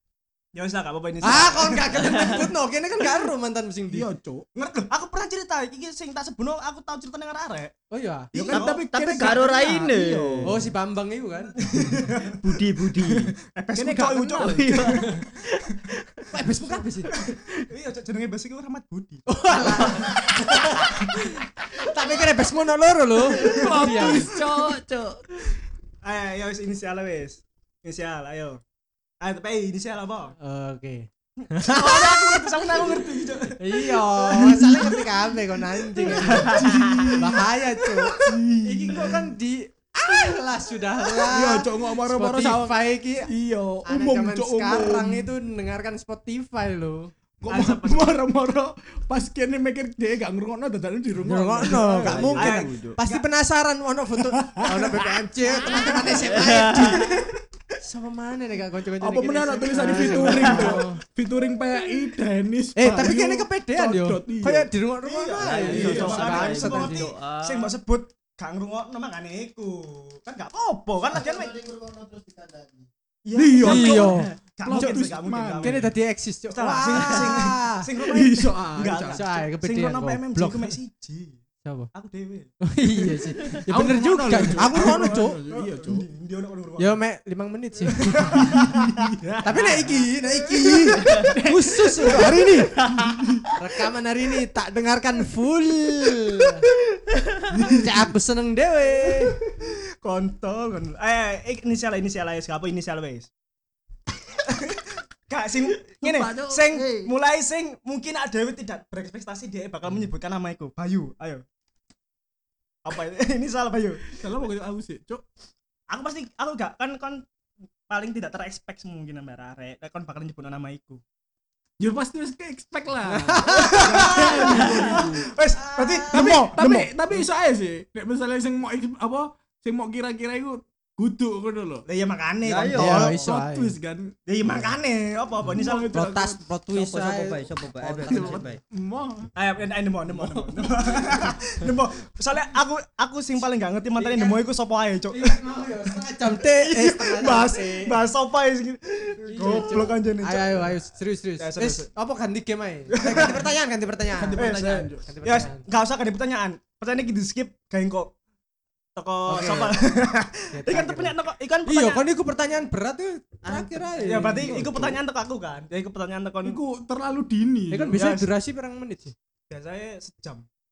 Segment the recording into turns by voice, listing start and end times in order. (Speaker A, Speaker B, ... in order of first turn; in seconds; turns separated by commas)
Speaker A: 0.5-2.4, Speaker B: 1.2-4.1, Speaker C: 1.9-2.4, Speaker D: 3.9-4.5, Speaker A: 4.5-7.7, Speaker B: 7.9-8.4, Speaker D: 8.3-10.7, Speaker A: 8.3-9.4, Speaker C: 8.5-10.5, Speaker B: 10.4-11.9, Speaker A: 11.6-15.2, Speaker C: 12.3-13.3, Speaker D: 13.7-15.0, Speaker B: 14.0-15.2, Speaker C: 14.7-15.2, Speaker B: 16.3-17.1, Speaker A: 17.1-21.2, Speaker B: 19.3-24.3, Speaker C: 19.6-20.2, Speaker D: 23.3-24.8, Speaker C: 23.7-25.2, Speaker A: 26.0-28.6, Speaker A: 29.2-30.3, Speaker B: 30.4-32.4, Speaker A: 31.5-35.0, Speaker D: 31.9-33.5, Speaker B: 33.6-43.3, Speaker D: 34.2-35.1, Speaker D: 35.9-39.1, Speaker A: 36.0-37.2, Speaker D: 41.1-45.3, Speaker B: 43.8-47.1, Speaker D: 47.4-52.3, Speaker A: 47.5-48.2, Speaker B: 51.2-57.2, Speaker A: 52.0-53.2, Speaker C: 52.0-53.0, Speaker D: 54.2-55.1, Speaker D: 55.8-56.2, Speaker C: 56.2-57.1, Speaker A: 56.6-57.2, Speaker B: 57.8-61.0, Speaker D: 59.0-64.7, Speaker A: 59.7-60.7, Speaker B: 62.8-67.1, Speaker A: 65.0-71.5, Speaker C: 65.4-67.8, Speaker D: 65.6-66.4, Speaker E: 71.1-72.9, Speaker A: 73.2-75.9, Speaker D: 73.3-75.9, Speaker B: 73.6-75.0, Speaker B: 75.6-77.8, Speaker A: 76.5-81.4, Speaker D: 78.0-79.2, Speaker B: 79.1-80.8, Speaker B: 81.6-81.9, Speaker A: 81.9-82.5, Speaker B: 82.6-85.4, Speaker D: 83.7-86.1, Speaker A: 84.4-87.0, Speaker B: 86.8-88.7, Speaker A: 88.0-91.3, Speaker D: 88.3-89.3, Speaker B: 89.4-92.8, Speaker D: 91.0-93.5, Speaker A: 92.0-93.5, Speaker B: 93.6-96.7, Speaker D: 97.5-98.0, Speaker B: 97.7-99.4, Speaker A: 99.6-103.3, Speaker A: 104.4-111.4, Speaker D: 106.0-106.7, Speaker E: 106.7-107.1, Speaker A: 112.8-114.2, Speaker D: 114.2-115.2, Speaker A: 115.9-117.2, Speaker A: 117.9-121.0, Speaker D: 121.8-125.3, Speaker B: 123.1-124.8, Speaker A: 123.4-126.9, Speaker B: 125.5-126.5, Speaker D: 126.1-131.8, Speaker A: 131.9-133.2, Speaker C: 132.4-133.1, Speaker B: 132.7-133.7, Speaker D: 132.8-134.1, Speaker A: 134.3-136.3, Speaker D: 135.4-136.3, Speaker B: 135.5-138.4, Speaker C: 136.7-138.6, Speaker D: 138.1-139.3, Speaker A: 139.3-145.4, Speaker B: 140.1-141.7, Speaker B: 144.0-144.4, Speaker B: 145.1-148.0, Speaker A: 146.2-150.7, Speaker B: 149.2-154.5, Speaker D: 149.4-149.9, Speaker A: 151.4-151.8, Speaker A: 152.9-153.5, Speaker D: 154.2-155.1, Speaker A: 154.2-158.1, Speaker B: 155.0-155.6, Speaker A: 158.9-162.1, Speaker B: 159.3-159.7, Speaker B: 160.5-164.9, Speaker C: 163.4-164.9, Speaker A: 164.0-166.6, Speaker D: 166.4-168.0, Speaker B: 167.7-169.1, Speaker A: 167.9-168.3, Speaker A: 169.5-170.4